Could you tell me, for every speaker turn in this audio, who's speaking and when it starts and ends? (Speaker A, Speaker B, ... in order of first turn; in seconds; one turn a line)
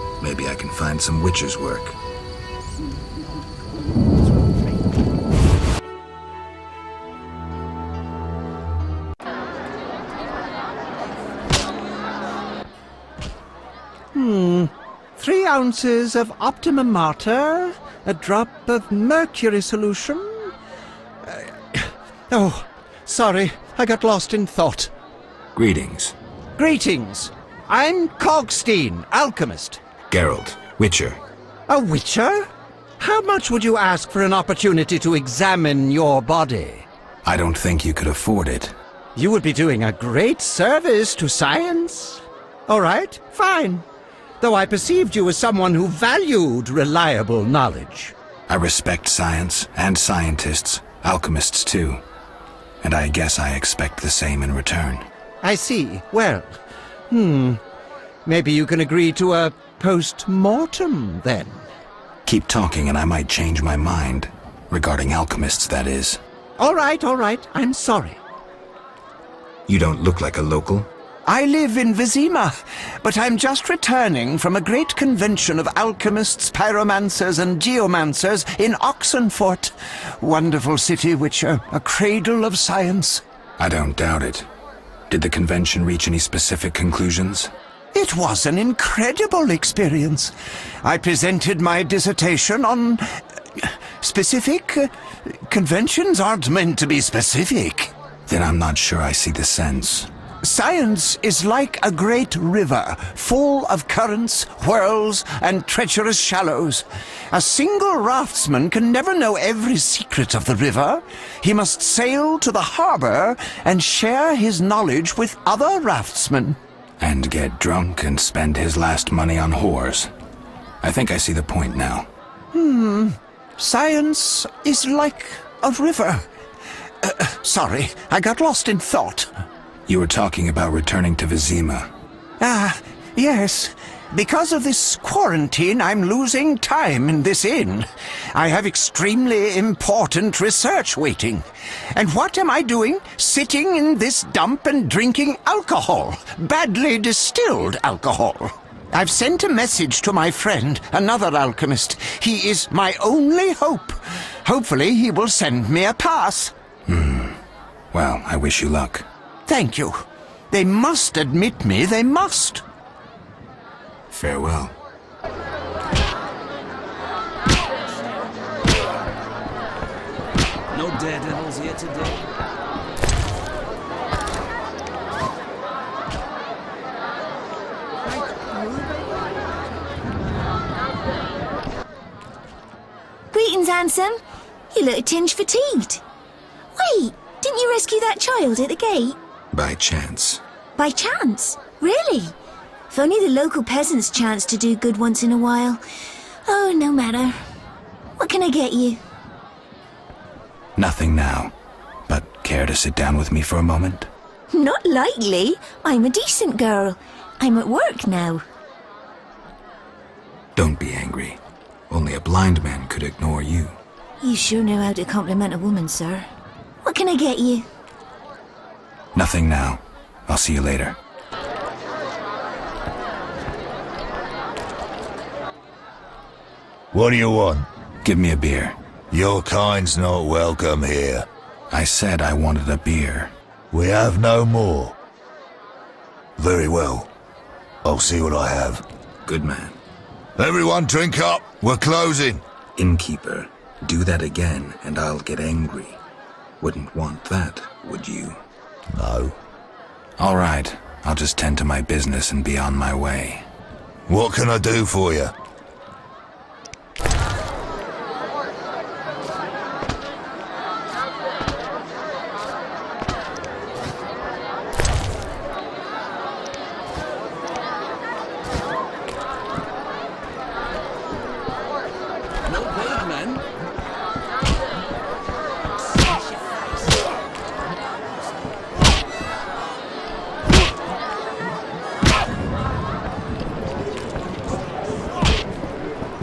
Speaker A: 0.2-2.0
Speaker B: 14.1-20.5
Speaker B: 21.2-24.9
Speaker A: 25.6-26.1
Speaker B: 26.6-29.8
Speaker A: 30.1-31.2
Speaker B: 31.7-36.9
Speaker A: 37.2-38.8
Speaker B: 39.2-43.8
Speaker B: 44.4-48.1
Speaker A: 48.5-52.0
Speaker A: 52.8-55.1
Speaker B: 55.4-56.6
Speaker B: 57.1-57.6
Speaker B: 58.3-61.7
Speaker A: 62.3-66.2
Speaker B: 66.6-68.2
Speaker A: 69.7-70.9
Speaker B: 71.3-83.2
Speaker A: 83.6-84.5
Speaker A: 85.1-87.5
Speaker B: 87.9-97.9
Speaker A: 98.3-100.1
Speaker B: 100.4-116.6
Speaker A: 117.0-120.1
Speaker A: 120.8-122.1
Speaker B: 122.5-126.2
Speaker B: 127.0-129.3
Speaker A: 129.9-131.9
Speaker B: 132.4-156.5
Speaker A: 156.9-157.4
Speaker A: 157.9-159.1
Speaker B: 159.5-160.0
Speaker B: 160.5-162.6
Speaker A: 164.1-164.7
Speaker C: 170.8-172.2
Speaker D: 183.3-184.2
Speaker D: 184.7-186.0
Speaker D: 186.8-189.2
Speaker A: 189.5-190.4
Speaker D: 190.8-192.3
Speaker D: 192.9-195.8
Speaker D: 196.5-197.4
Speaker D: 198.2-199.0
Speaker A: 200.8-201.5
Speaker A: 202.1-204.1
Speaker D: 204.5-208.4
Speaker A: 210.6-211.4
Speaker A: 211.9-213.8
Speaker D: 214.2-216.3
Speaker D: 216.8-217.7
Speaker A: 219.1-221.0
Speaker E: 226.9-227.7
Speaker A: 228.0-228.8
Speaker E: 229.1-231.3
Speaker A: 231.7-233.3
Speaker E: 233.7-235.0
Speaker E: 236.4-237.1
Speaker E: 237.8-238.8
Speaker A: 239.2-239.8
Speaker E: 240.4-242.4
Speaker A: 242.8-246.0
Speaker A: 246.6-248.4
Speaker E: 248.9-249.4
Speaker A: 250.2-253.5
Speaker E: 254.1-255.3
Speaker C: 272.5-273.4